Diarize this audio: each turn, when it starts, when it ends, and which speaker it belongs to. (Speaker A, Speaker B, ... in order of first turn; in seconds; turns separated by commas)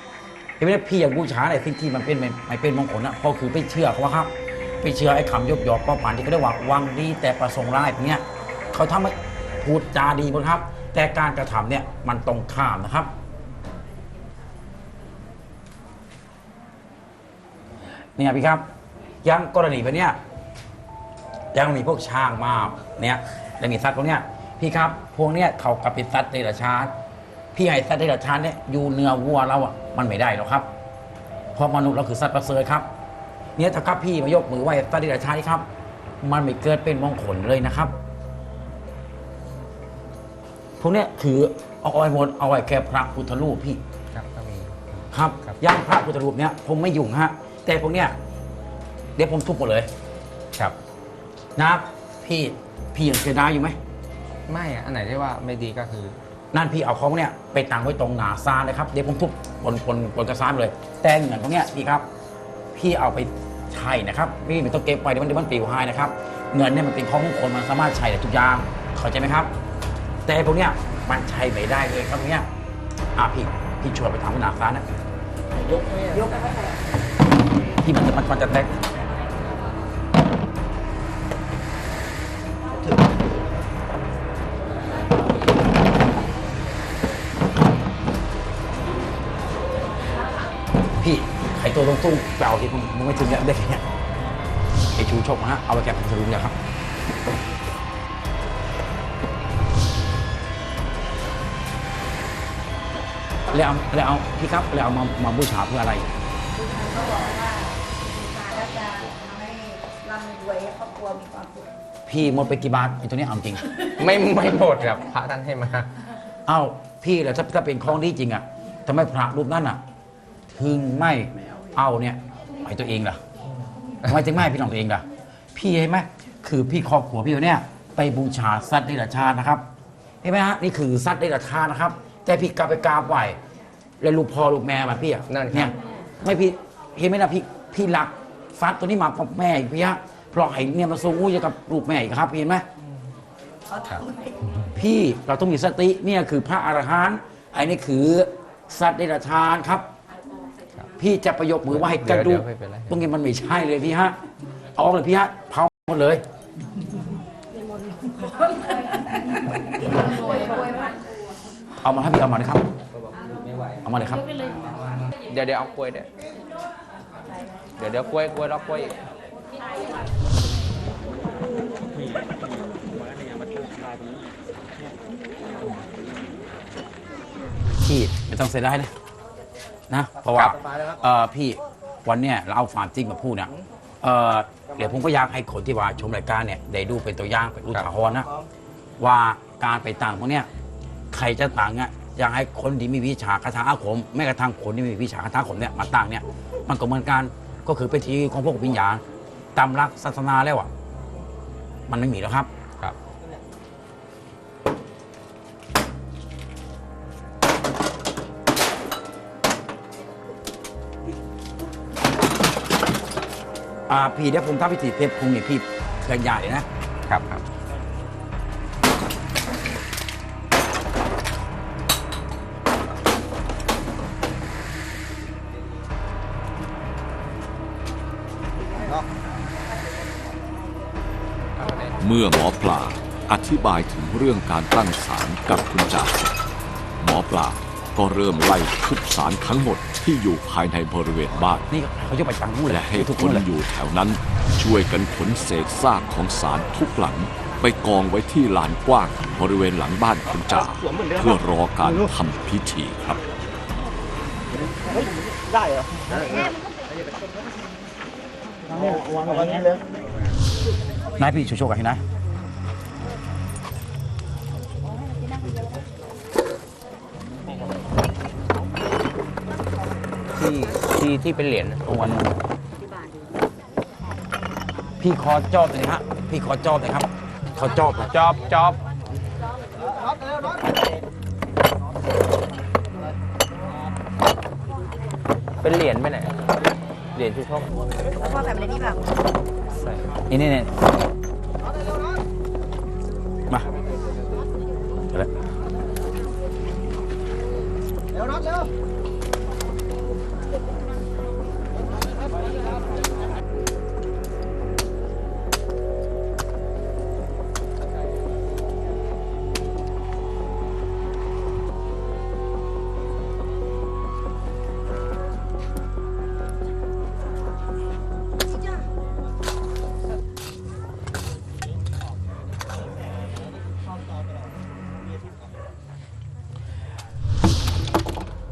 Speaker A: 0.6-13.1, Speaker A: 18.2-18.7, Speaker A: 19.2-20.2, Speaker A: 21.5-26.9, Speaker A: 27.5-30.7, Speaker A: 31.5-32.9, Speaker A: 33.6-35.7, Speaker A: 36.2-38.0, Speaker A: 40.8-43.8, Speaker B: 44.1-45.6, Speaker A: 45.1-48.2, Speaker A: 49.1-49.9, Speaker A: 51.6-53.8, Speaker B: 54.5-56.2, Speaker A: 56.5-62.1, Speaker A: 62.7-69.5, Speaker A: 70.2-72.5, Speaker A: 73.2-74.9, Speaker A: 77.8-78.8, Speaker A: 91.0-93.8, Speaker A: 95.0-96.6, Speaker A: 103.5-106.1, Speaker C: 106.8-107.5, Speaker C: 108.1-111.6, Speaker A: 112.1-113.7, Speaker B: 114.0-116.0, Speaker A: 116.5-119.8, Speaker A: 120.5-123.2, Speaker A: 124.1-129.7, Speaker A: 130.2-133.4, Speaker A: 134.0-142.6, Speaker B: 135.3-135.8, Speaker B: 143.8-144.7, Speaker A: 144.7-149.9, Speaker A: 151.0-154.2, Speaker B: 151.7-153.1, Speaker A: 154.8-156.2, Speaker A: 161.8-162.7, Speaker A: 163.8-164.3, Speaker B: 165.2-166.1, Speaker B: 167.8-169.0, Speaker A: 177.8-178.9, Speaker A: 179.9-188.3, Speaker A: 189.0-190.5, Speaker A: 191.1-199.0, Speaker A: 199.6-200.7, Speaker A: 201.9-202.5, Speaker A: 213.9-216.7, Speaker B: 217.1-217.4, Speaker B: 231.6-232.0, Speaker D: 232.0-236.3, Speaker D: 237.0-241.7, Speaker A: 241.7-243.4, Speaker D: 242.7-253.2, Speaker A: 261.2-262.0, Speaker B: 270.3-272.0, Speaker A: 271.9-272.4, Speaker A: 275.0-278.3, Speaker B: 278.1-278.8, Speaker B: 285.6-286.4, Speaker B: 287.1-287.7, Speaker B: 289.8-290.1, Speaker A: 290.3-290.7